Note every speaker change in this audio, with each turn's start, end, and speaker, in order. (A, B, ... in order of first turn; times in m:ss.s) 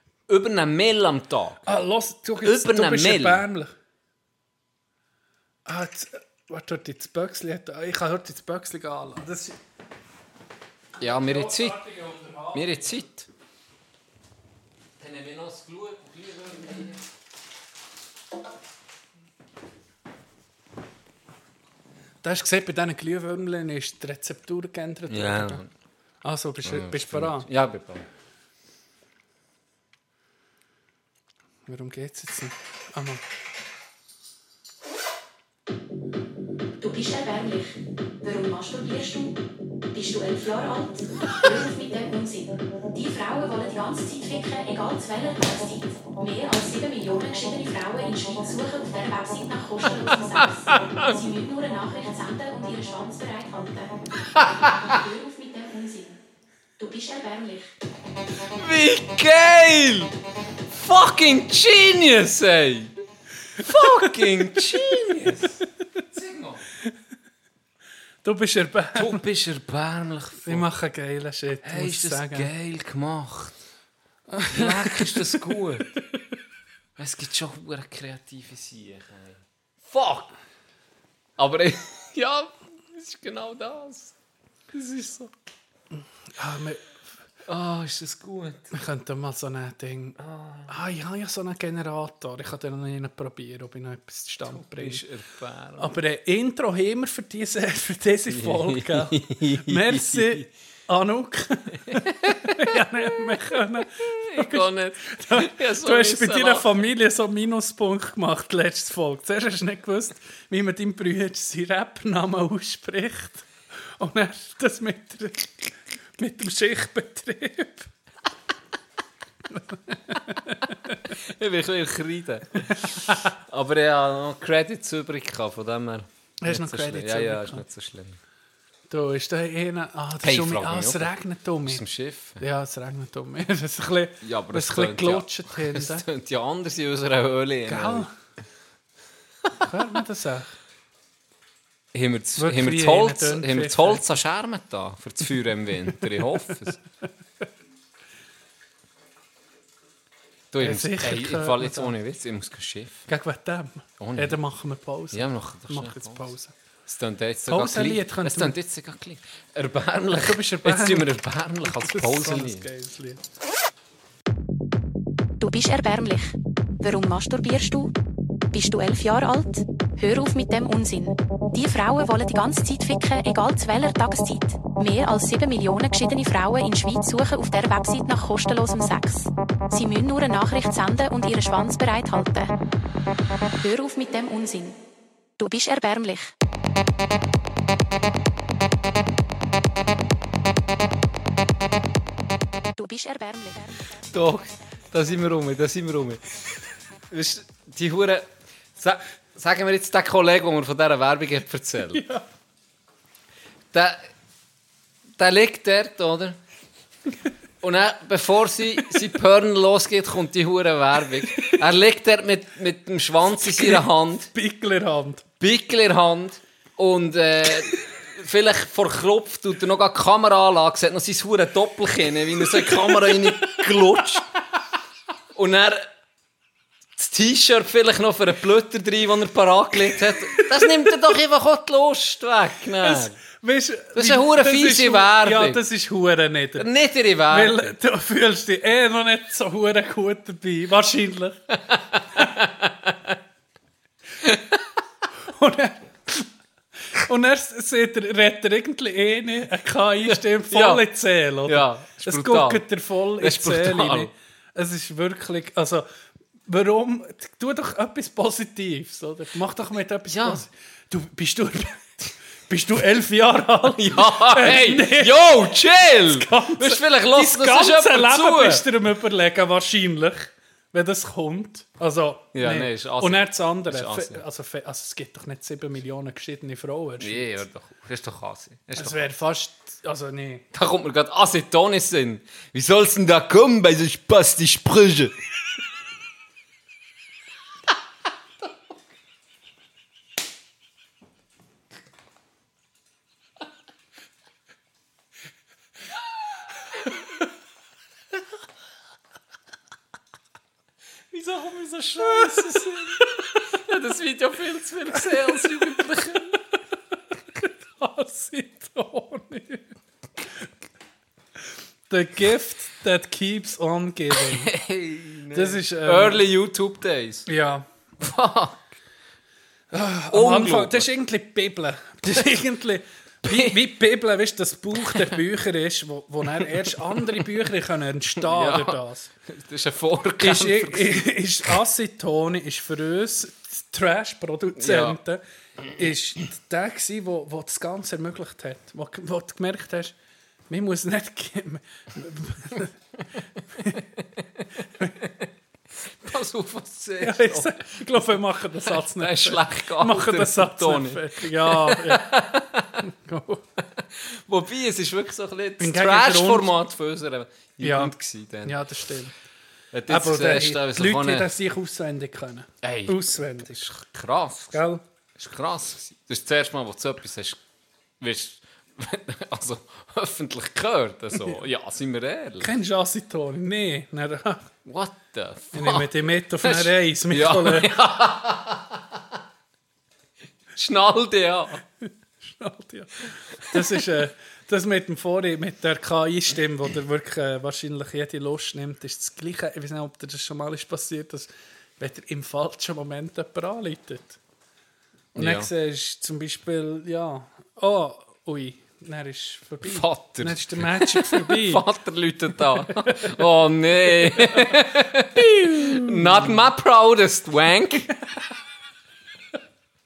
0:00.3-0:01.7 A
0:01.6-0:03.7 B
0:02.4-0:03.4 A
0:05.6-0:09.6 B
0:11.0-0:11.8 A
0:11.0-0:13.0 B
0:12.5-0:13.3 A
0:15.0-0:17.1 A
0:22.2-0:25.6 B
0:25.1-0:25.7 A
0:26.2-0:27.5 B
0:26.6-0:28.1 A
0:31.7-0:33.2 B
0:36.8-0:39.4 C
0:39.9-0:53.9 C
0:50.1-0:51.2 A
0:54.3-0:55.0 A
0:54.6-0:56.2 C
0:56.8-0:57.7 C
0:58.5-1:00.1 A
1:00.7-1:02.9 A
1:03.6-1:05.6 A
1:03.6-1:05.2 B
1:06.1-1:06.6 A
1:08.2-1:09.2 B
1:08.9-1:10.6 A
1:10.4-1:12.5 B
1:11.6-1:13.6 A
1:14.3-1:15.6 B
1:14.5-1:16.0 A
1:17.0-1:20.3 A
1:21.4-1:24.1 A
1:24.7-1:25.3 A
1:26.4-1:26.8 B
1:27.4-1:28.7 A
1:28.7-1:35.0 B
1:30.2-1:30.7 A
1:34.4-1:35.9 A
1:35.8-1:53.4 B
1:38.3-1:40.4 A
1:41.9-1:46.7 A
1:54.0-1:57.9 B
1:59.5-2:00.9 B
2:01.1-2:08.2 A
2:02.9-2:03.3 B
2:06.4-2:07.6 B
2:08.9-2:11.8 B
2:10.2-2:11.1 A
2:11.6-2:12.4 A
2:12.4-2:16.0 B
2:14.2-2:18.1 A
2:17.7-2:18.1 B
2:19.6-2:20.5 B
2:21.9-2:26.8 A
2:22.4-2:24.1 B
2:30.5-2:33.0 A
2:30.6-2:31.9 B
2:33.1-2:36.5 B
2:34.0-2:34.4 A
2:35.1-2:36.3 A
2:36.8-2:42.7 A
2:37.5-2:38.6 B
2:40.2-2:43.2 B
2:45.4-2:47.9 C
2:48.5-3:02.5 C
3:03.6-3:04.8 C
3:05.4-3:06.3 C
3:12.8-3:13.9 C
3:14.1-3:16.2 A
3:17.1-3:22.1 A
3:21.9-3:22.2 B
3:23.7-3:24.1 A
3:25.2-3:26.4 A
3:27.6-3:34.3 A
3:33.4-3:35.3 B
3:35.4-3:44.3 A
3:42.5-3:43.7 B
3:45.3-3:45.9 A
3:47.0-3:53.2 A
3:52.8-3:56.7 B
3:53.9-3:55.6 A
3:56.6-3:57.6 A
3:57.3-4:01.5 B
4:01.7-4:03.2 A
4:04.2-4:04.6 A
4:05.3-4:06.3 B
4:06.9-4:15.8 B
4:10.0-4:10.8 A
4:11.4-4:12.6 A
4:13.2-4:14.1 A
4:16.5-4:37.4 B
4:20.1-4:20.4 A
4:23.8-4:28.7 A
4:32.3-4:34.2 A
4:37.0-4:39.1 A
4:38.7-4:40.4 B
4:40.5-4:45.2 A
5:01.1-5:03.1 B
5:01.9-5:06.4 A
5:05.0-5:05.8 B
5:07.4-5:09.7 B
5:11.9-5:14.5 B
5:14.1-5:17.3 A
5:15.3-5:16.2 B
5:17.3-5:17.6 B
5:18.0-5:18.7 A
5:19.7-5:29.1 B
5:20.1-5:20.9 A
5:23.2-5:23.7 A
5:24.8-5:25.2 A
5:26.4-5:27.2 A
5:28.2-5:31.5 A
5:30.2-5:35.2 B
5:34.6-5:35.0 A
5:35.7-5:39.9 B
5:40.5-5:42.7 B
5:43.6-5:43.8 B
5:44.0-5:45.2 A
5:45.8-5:52.9 A
5:47.0-5:52.1 B
5:52.8-5:53.4 B
5:53.6-5:58.6 A
5:55.6-5:56.5 B
5:57.6-5:59.1 B
5:59.7-6:01.3 A
5:59.9-6:03.7 B
6:02.6-6:04.6 A
6:04.5-6:04.8 B
6:05.2-6:07.4 A
6:08.0-6:12.5 A
6:12.4-6:14.5 B
6:14.6-6:19.1 A
6:15.5-6:17.8 B
6:20.5-6:21.6 A
6:22.2-6:34.2 B
6:23.5-6:23.8 A
6:35.1-6:35.5 A
6:35.2-6:41.6 B
6:39.6-6:47.9 A
6:42.6-6:43.1 B
6:44.1-6:44.5 B
6:45.6-6:46.3 B